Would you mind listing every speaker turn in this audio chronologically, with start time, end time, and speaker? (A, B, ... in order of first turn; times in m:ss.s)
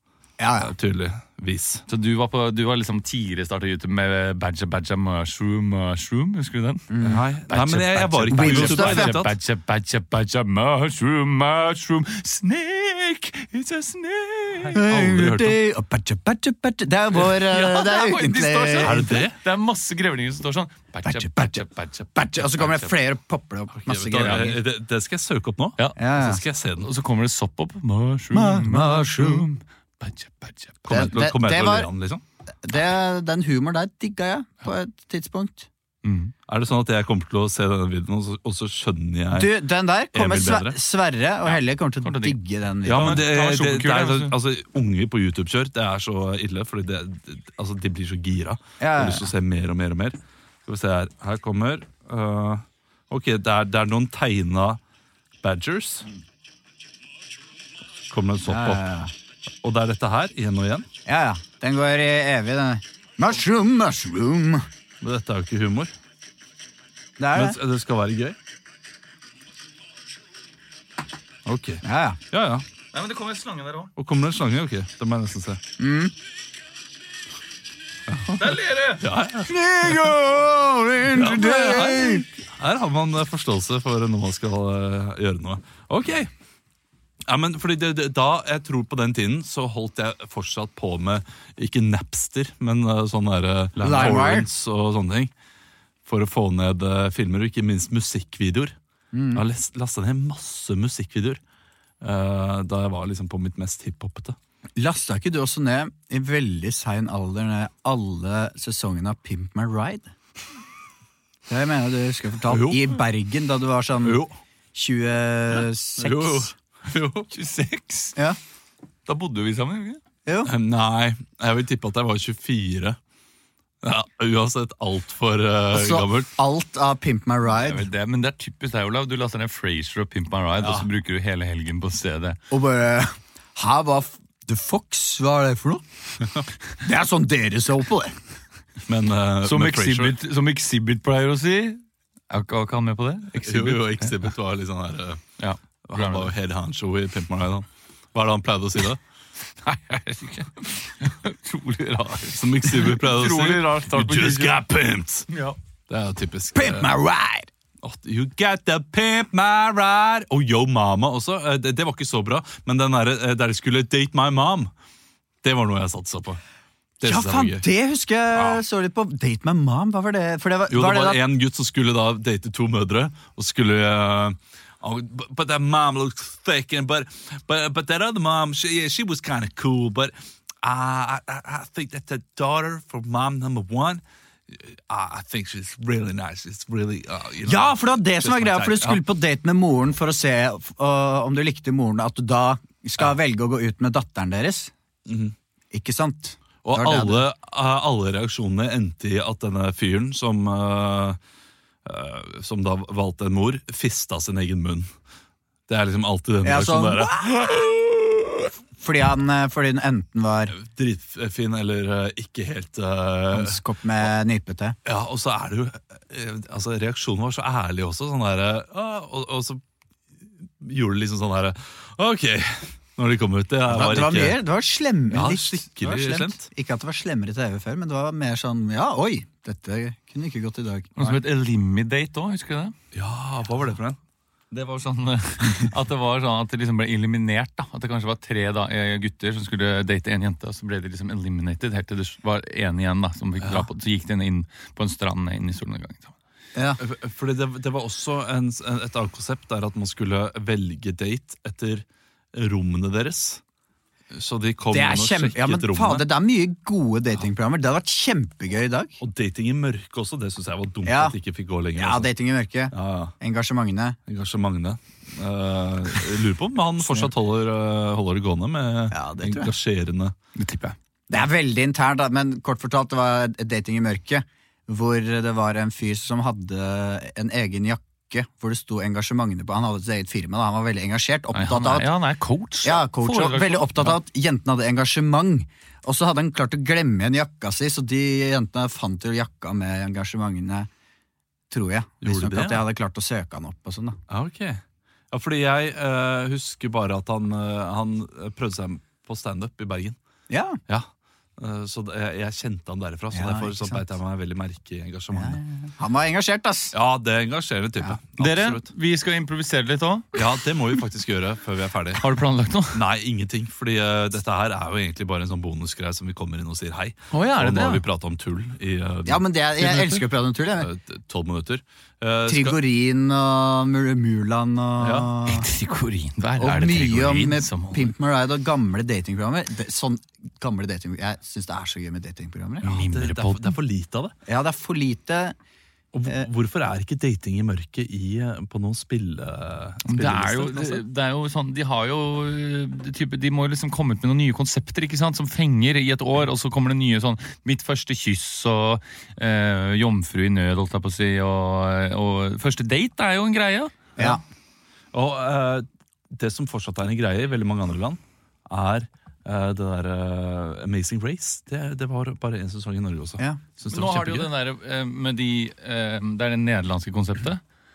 0:00.4-0:00.7 A
0:00.6-0:01.8 B
0:01.9-0:14.8 C
0:06.9-0:07.2 A
0:07.0-0:09.3 B
0:08.3-0:09.2 A
0:14.6-0:15.6 B
0:14.7-0:19.1 A
0:17.1-0:23.0 C
0:18.8-0:19.4 B
0:21.0-0:24.6 A
0:23.8-0:26.9 B
0:24.2-0:24.5 C
0:26.0-0:26.4 A
0:26.8-0:31.0 C
0:28.3-0:29.5 A
0:30.8-0:32.2 B
0:30.9-0:31.9 A
0:32.6-0:35.7 A
0:36.0-0:36.3 C
0:36.5-0:40.8 B
0:39.3-0:43.3 A
0:41.5-0:42.4 C
0:42.8-0:54.8 B
0:42.9-0:44.3 C
0:48.8-0:49.3 A
0:55.4-0:56.1 B
0:58.1-0:58.8 B
0:58.4-0:59.1 A
0:59.6-1:00.9 B
1:01.1-1:04.6 A
1:05.0-1:05.9 B
1:07.2-1:07.6 A
1:07.3-1:08.4 B
1:11.4-1:12.6 B
1:11.8-1:12.2 A
1:12.9-1:13.9 C
1:14.0-1:15.6 B
1:15.8-1:16.1 A
1:18.1-1:20.1 B
1:18.4-1:19.0 C
1:19.5-1:22.2 A
1:21.1-1:26.3 B
1:27.3-1:35.3 B
1:33.8-1:34.5 A
1:36.1-1:38.8 B
1:39.1-1:39.4 A
1:39.3-1:41.4 B
1:42.0-1:44.4 B
1:44.8-1:50.1 A
1:51.5-1:54.2 A
1:52.4-1:53.0 B
1:54.0-1:54.4 B
1:54.7-1:56.5 A
1:55.5-1:57.3 B
1:57.3-1:58.2 C
1:59.1-2:00.0 C
2:00.2-2:00.5 A
2:00.4-2:03.0 B
2:03.8-2:06.3 B
2:05.7-2:07.9 A
2:07.6-2:12.4 C
2:10.6-2:10.9 B
2:12.5-2:15.8 A
2:16.8-2:18.1 A
2:18.9-2:20.2 B
2:19.4-2:24.3 C
2:23.4-2:25.2 B
2:25.4-2:26.3 C
2:25.9-2:29.0 B
2:29.6-2:34.6 C
2:32.3-2:35.3 B
2:35.3-2:35.6 C
2:35.9-2:36.9 B
2:36.5-2:37.5 A
2:37.8-2:44.7 B
2:45.4-2:46.4 B
2:47.0-2:47.6 B
2:47.0-2:51.2 A
2:48.3-2:48.6 B
2:50.7-3:09.0 B
3:07.4-3:14.7 A
3:15.1-3:15.3 B
3:15.7-3:17.2 A
3:16.6-3:21.2 B
3:21.8-3:24.9 B
3:25.7-3:27.3 B
3:26.4-3:30.5 A
3:30.5-3:34.1 B
3:33.3-3:34.8 A
3:34.8-3:39.6 B
3:40.6-3:44.4 B
3:43.7-3:51.2 A
3:45.1-3:46.4 B
3:51.0-3:52.8 C
3:52.9-3:54.0 B
3:54.5-4:06.1 C
4:03.4-4:03.7 B
4:06.5-4:06.8 A
4:06.8-4:13.4 B
4:14.1-4:16.1 B
4:14.7-4:19.0 A
4:19.0-4:22.1 B
4:20.8-4:21.2 A
4:21.8-4:24.0 A
4:22.7-4:23.1 B
4:24.1-4:30.1 B
4:26.8-4:27.1 A
4:28.9-4:29.5 A
4:30.4-4:30.7 C
4:31.1-4:41.9 A
4:41.3-4:44.0 C
4:42.6-4:50.7 A
4:51.5-4:54.0 A
4:52.0-4:52.6 B
4:54.1-4:54.6 B
4:55.1-5:00.0 B
5:00.3-5:00.6 A
5:01.4-5:05.4 B
5:03.1-5:03.8 A
5:05.1-5:06.7 A
5:06.7-5:08.7 B
5:08.2-5:10.2 C
5:10.1-5:12.0 B
5:12.0-5:12.8 C
5:12.7-5:22.6 B
5:17.1-5:17.8 C
5:19.0-5:20.7 A
5:22.3-5:25.5 A
5:24.8-5:25.1 B
5:25.2-5:27.9 C
5:26.4-5:32.6 A
5:32.6-5:33.6 C
5:32.6-5:34.1 B
5:34.3-5:35.4 A
5:35.9-5:40.8 B
5:39.8-5:54.2 C
5:54.9-6:04.3 B
6:03.7-6:07.4 C